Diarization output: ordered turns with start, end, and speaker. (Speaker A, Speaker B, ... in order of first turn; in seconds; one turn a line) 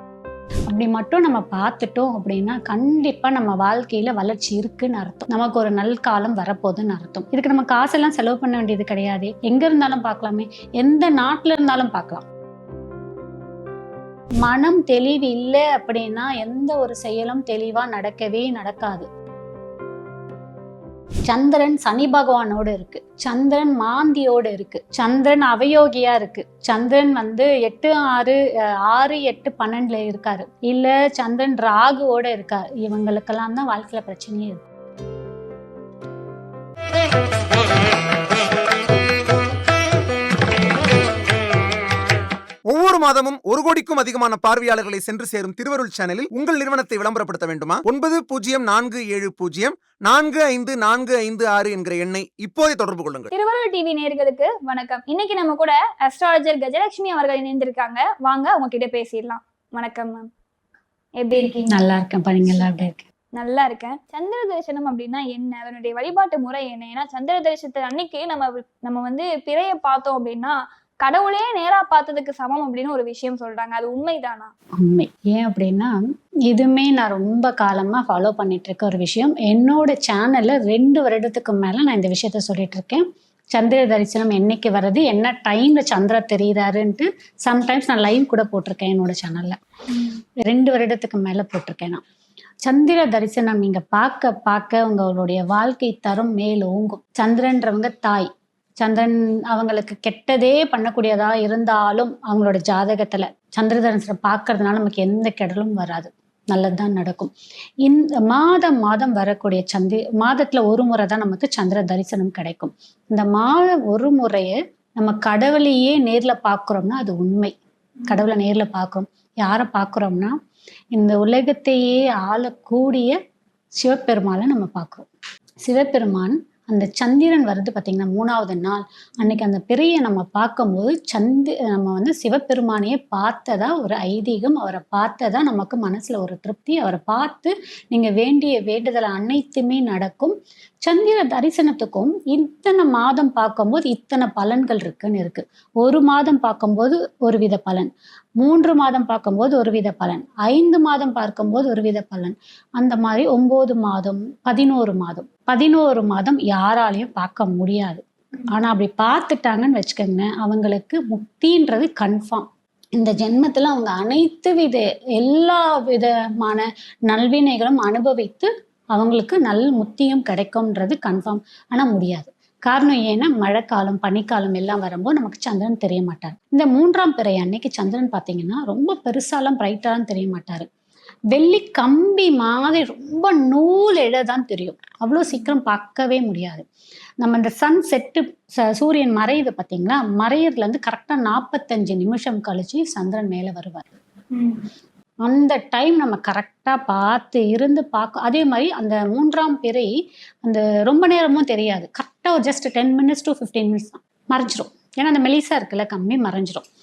Speaker A: 0.7-12.2
Speaker A: 14.4-19.1
Speaker A: 21.3-34.6
Speaker B: 42.7-53.3
Speaker C: 53.3-60.3
Speaker C: 61.2-61.8
Speaker A: 61.3-63.0
Speaker C: 63.4-74.5
Speaker A: 74.8-75.9
Speaker A: 76.5-89.6
Speaker A: 90.4-92.0
Speaker A: 92.6-107.3
Speaker A: 107.8-117.5
Speaker A: 118.1-120.3
Speaker A: 120.9-123.2
Speaker A: 123.7-125.1
Speaker A: 125.6-180.7
Speaker A: 181.3-186.6
Speaker A: 187.2-193.8
Speaker C: 194.3-194.6
Speaker A: 195.2-199.9
Speaker A: 200.4-206.7